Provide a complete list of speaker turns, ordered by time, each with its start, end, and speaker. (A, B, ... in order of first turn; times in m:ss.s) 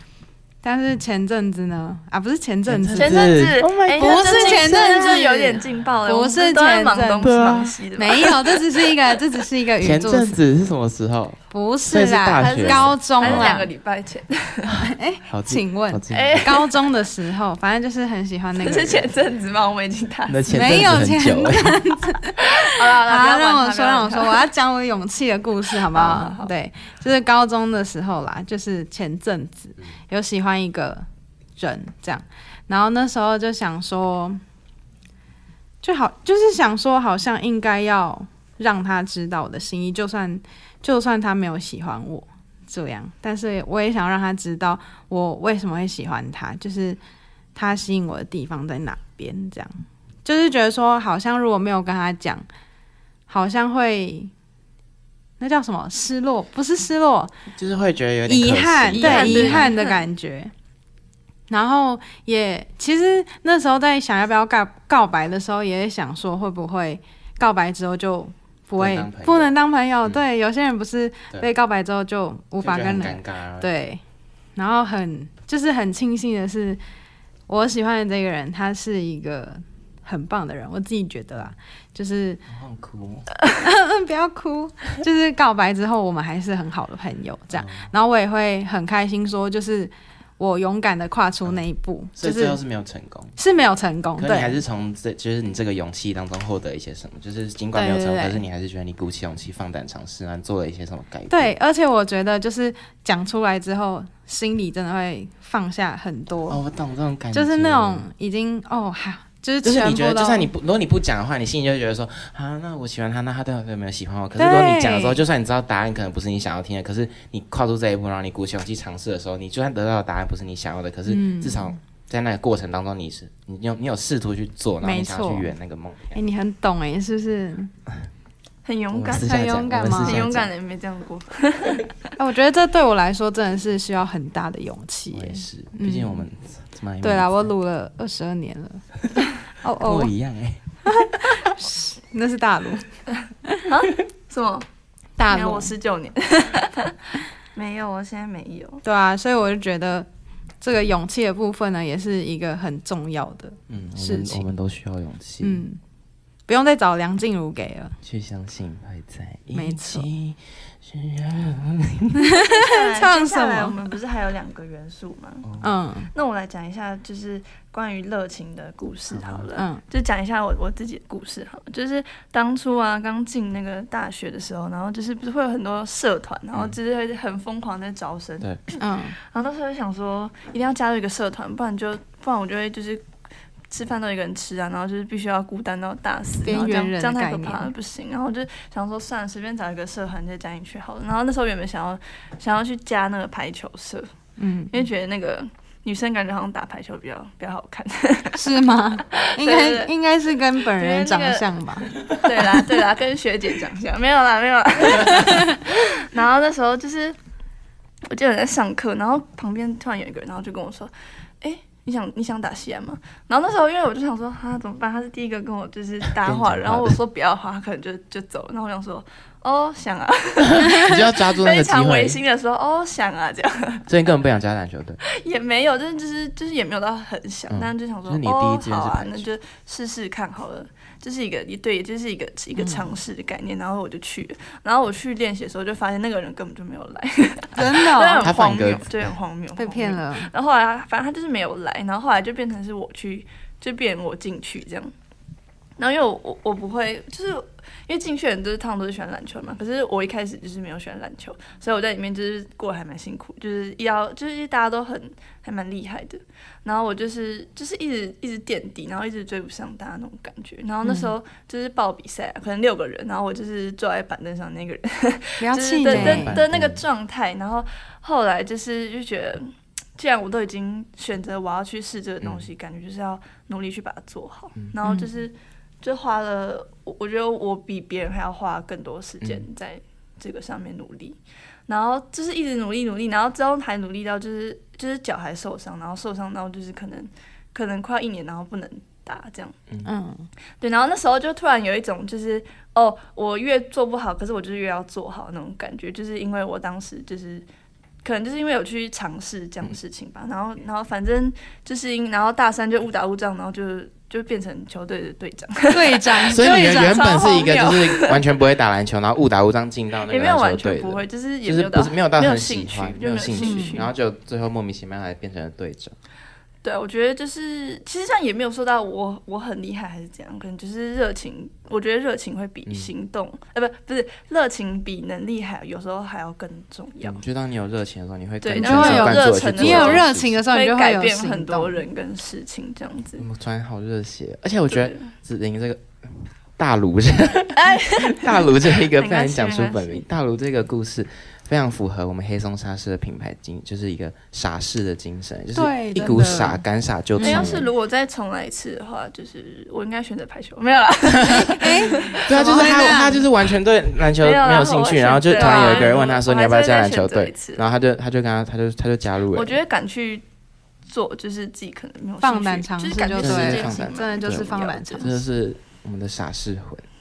0:00.6-0:03.4 A
0:02.6-0:05.2 B
0:02.9-0:09.4 C
0:04.0-0:10.4 A
0:07.2-0:07.7 B
0:09.8-0:13.6 B
0:11.5-0:13.7 A
0:12.4-0:14.7 C
0:14.7-0:16.5 B
0:14.8-0:19.0 A
0:16.1-0:16.8 C
0:18.5-0:20.4 C
0:20.2-0:21.8 B
0:20.5-0:31.0 A
0:22.6-0:24.5 C
0:25.9-0:26.5 C
0:31.6-0:34.4 A
0:35.8-0:47.0 A
0:47.5-0:49.7 A
0:50.2-0:52.4 A
0:53.3-0:54.3 A
0:55.4-0:57.3 A
0:57.5-0:59.7 B
0:58.3-1:00.5 A
0:59.0-1:00.0 C
1:01.5-1:14.0 A
1:08.8-1:10.2 B
1:12.6-1:13.7 B
1:14.6-1:16.8 A
1:17.5-1:22.4 A
1:22.5-1:23.3 B
1:23.6-1:32.6 A
1:27.5-1:27.9 B
1:32.2-1:33.3 B
1:33.4-1:34.6 A
1:34.2-1:41.5 B
1:37.7-1:38.4 A
1:41.3-1:46.6 A
1:46.5-1:48.1 B
1:47.3-1:50.5 A
1:49.6-2:06.2 B
1:54.4-1:55.2 A
2:01.0-2:01.8 A
2:04.8-2:05.5 A
2:06.1-2:07.7 A
2:08.6-2:09.3 C
2:08.9-2:10.5 B
2:09.1-2:10.3 A
2:09.9-2:11.9 C
2:12.2-2:16.2 A
2:15.1-2:17.5 B
2:17.0-2:18.8 A
2:19.6-2:20.1 A
2:19.8-2:20.6 B
2:21.4-2:22.8 A
2:23.7-2:24.6 C
2:25.2-2:25.7 A
2:25.3-2:27.0 C
2:27.5-2:28.8 C
2:28.8-2:30.1 A
2:30.6-2:34.5 A
2:33.7-2:35.6 B
2:35.4-2:35.8 A
2:36.5-2:38.0 A
2:38.0-2:42.2 B
2:39.5-2:40.1 A
2:42.2-2:43.8 A
2:42.4-2:45.5 C
2:45.4-2:45.7 B
2:45.6-2:46.1 A
2:46.1-3:03.0 C
2:49.1-2:49.5 B
2:49.5-2:49.8 A
2:58.8-2:59.2 A
3:03.7-3:14.0 C
3:06.4-3:07.7 A
3:14.4-3:14.8 A
3:14.7-3:18.5 C
3:18.3-3:21.9 A
3:19.2-3:19.9 C
3:20.6-3:21.5 C
3:22.0-3:27.2 C
3:25.0-3:25.6 A
3:28.1-3:44.0 C
3:36.1-3:37.0 B
3:40.4-3:42.2 B
3:43.9-3:45.0 B
3:45.1-4:04.9 C
3:47.5-3:49.3 B
3:52.5-3:52.9 A
3:57.5-3:58.3 A
3:58.2-3:59.1 B
3:59.5-4:00.3 A
4:05.8-4:29.4 C
4:20.8-4:21.1 A
4:25.4-4:26.4 A
4:25.9-4:26.8 B
4:30.0-4:49.5 C
4:32.2-4:32.5 B
4:34.8-4:35.1 A
4:39.2-4:39.4 B
4:49.8-4:50.3 A
4:50.6-4:57.4 C
4:58.0-5:08.2 C
5:05.7-5:07.1 A
5:06.3-5:15.9 B
5:10.1-5:13.9 C
5:13.4-5:13.9 A
5:16.6-5:27.2 C
5:22.6-5:22.9 B
5:27.0-5:30.4 B
5:28.4-5:33.2 C
5:28.6-5:31.8 A
5:33.2-5:47.7 B
5:34.7-5:35.1 C
5:37.6-5:40.0 C
5:45.5-5:46.6 A
5:47.2-5:47.5 A
5:47.2-5:53.0 C
5:51.4-5:53.3 A
5:52.2-5:59.6 B
5:54.2-5:57.6 C
5:55.3-5:56.0 A
5:59.3-6:00.2 C
6:00.9-6:05.1 C
6:02.2-6:05.2 A
6:03.1-6:06.8 B